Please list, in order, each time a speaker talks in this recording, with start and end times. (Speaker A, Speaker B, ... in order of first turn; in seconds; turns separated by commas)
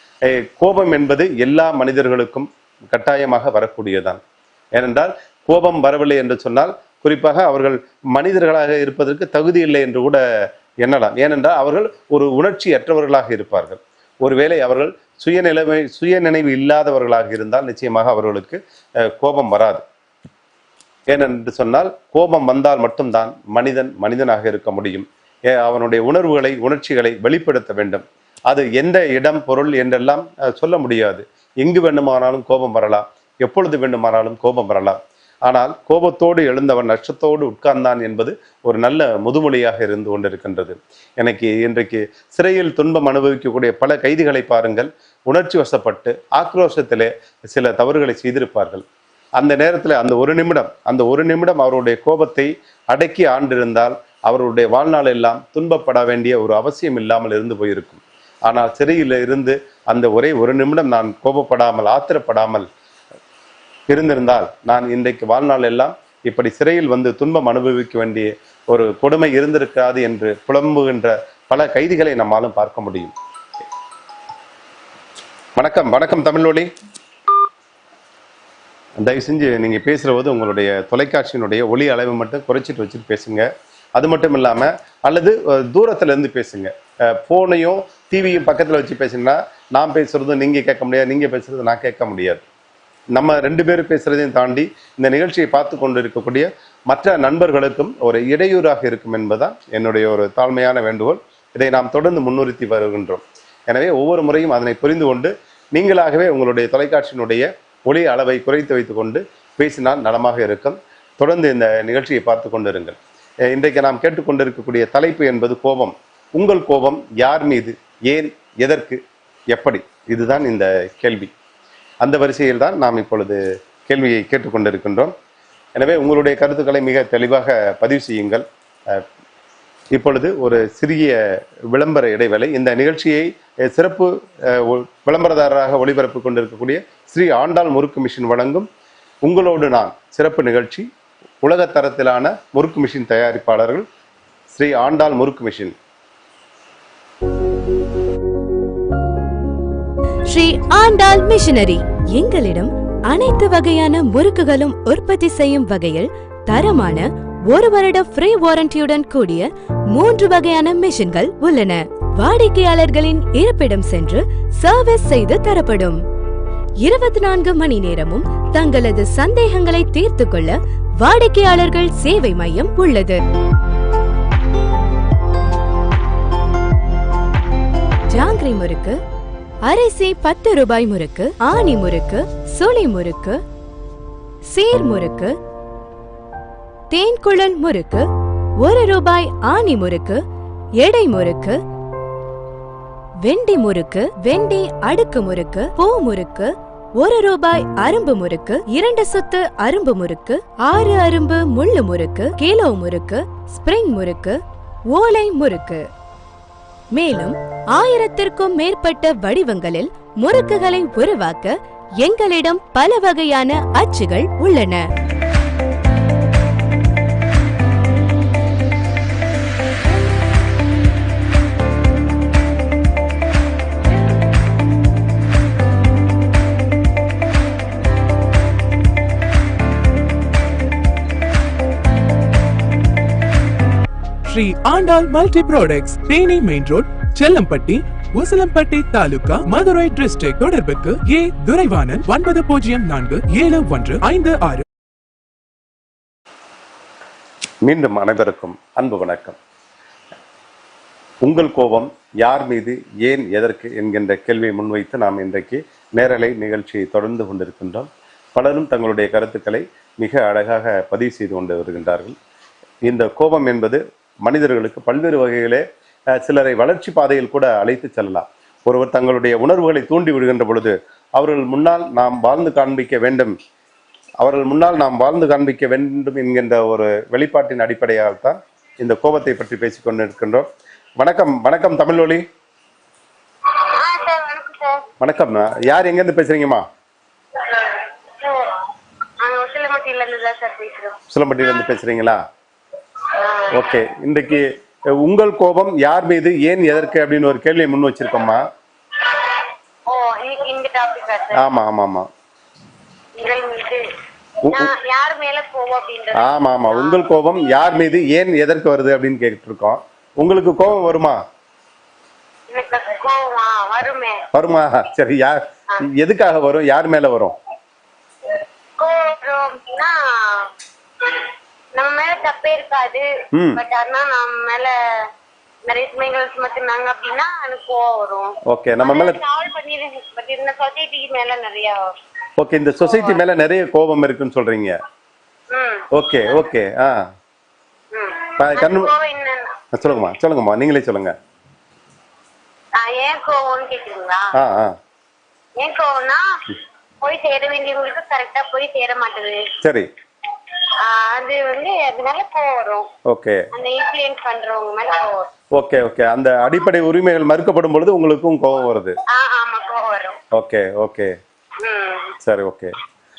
Speaker A: 0.2-4.2, Speaker A: 4.8-10.2, Speaker A: 10.8-19.8, Speaker A: 21.1-48.8, Speaker A: 49.4-62.7, Speaker A: 63.9-73.1, Speaker A: 75.6-76.7, Speaker A: 79.0-83.5, Speaker A: 84.0-92.4, Speaker A: 93.2-113.0, Speaker A: 113.5-119.0, Speaker A: 119.5-121.3, Speaker A: 122.0-125.1, Speaker A: 125.8-129.0, Speaker A: 129.9-131.1, Speaker A: 131.7-138.7, Speaker A: 139.2-140.9, Speaker A: 141.4-143.8, Speaker A: 144.5-145.7, Speaker B: 150.3-166.0, Speaker B: 166.8-173.2, Speaker B: 178.1-179.0, Speaker B: 179.7-183.4, Speaker B: 184.5-185.3, Speaker B: 186.9-188.1, Speaker B: 188.6-190.2, Speaker B: 190.8-191.6, Speaker B: 193.2-204.4, Speaker B: 204.9-205.8, Speaker B: 206.9-214.8, Speaker C: 234.3-244.6, Speaker A: 247.7-249.4, Speaker A: 251.2-262.1, Speaker A: 262.9-265.6, Speaker A: 266.2-273.3, Speaker A: 274.2-280.4, Speaker A: 281.0-282.2, Speaker D: 283.5-284.8, Speaker A: 285.0-286.6, Speaker D: 287.4-288.6, Speaker D: 289.2-291.0, Speaker A: 291.1-292.2, Speaker D: 293.2-293.6, Speaker A: 293.6-294.5, Speaker A: 295.0-298.4, Speaker D: 299.9-301.4, Speaker A: 301.4-302.1, Speaker D: 303.2-303.8, Speaker A: 304.4-304.7, Speaker D: 304.5-307.0, Speaker A: 306.2-311.2, Speaker D: 312.5-314.2, Speaker A: 314.3-315.4, Speaker A: 315.9-317.4, Speaker D: 318.8-320.5, Speaker D: 321.7-323.0, Speaker A: 323.3-323.6, Speaker D: 323.6-324.7, Speaker D: 325.7-328.3, Speaker A: 328.5-329.2, Speaker D: 328.8-331.9, Speaker A: 332.4-334.8, Speaker D: 332.8-333.2, Speaker D: 335.5-335.9, Speaker A: 335.9-336.9, Speaker D: 337.9-339.5, Speaker A: 338.4-338.9, Speaker A: 339.7-341.1, Speaker D: 342.8-344.2, Speaker A: 344.4-344.7, Speaker D: 345.6-346.2, Speaker D: 347.0-349.4, Speaker A: 349.6-349.9, Speaker D: 350.8-352.9, Speaker A: 353.1-353.4, Speaker D: 353.5-355.3, Speaker A: 355.6-358.9, Speaker D: 359.1-360.2, Speaker A: 360.3-361.1, Speaker D: 361.6-362.1, Speaker A: 362.2-362.7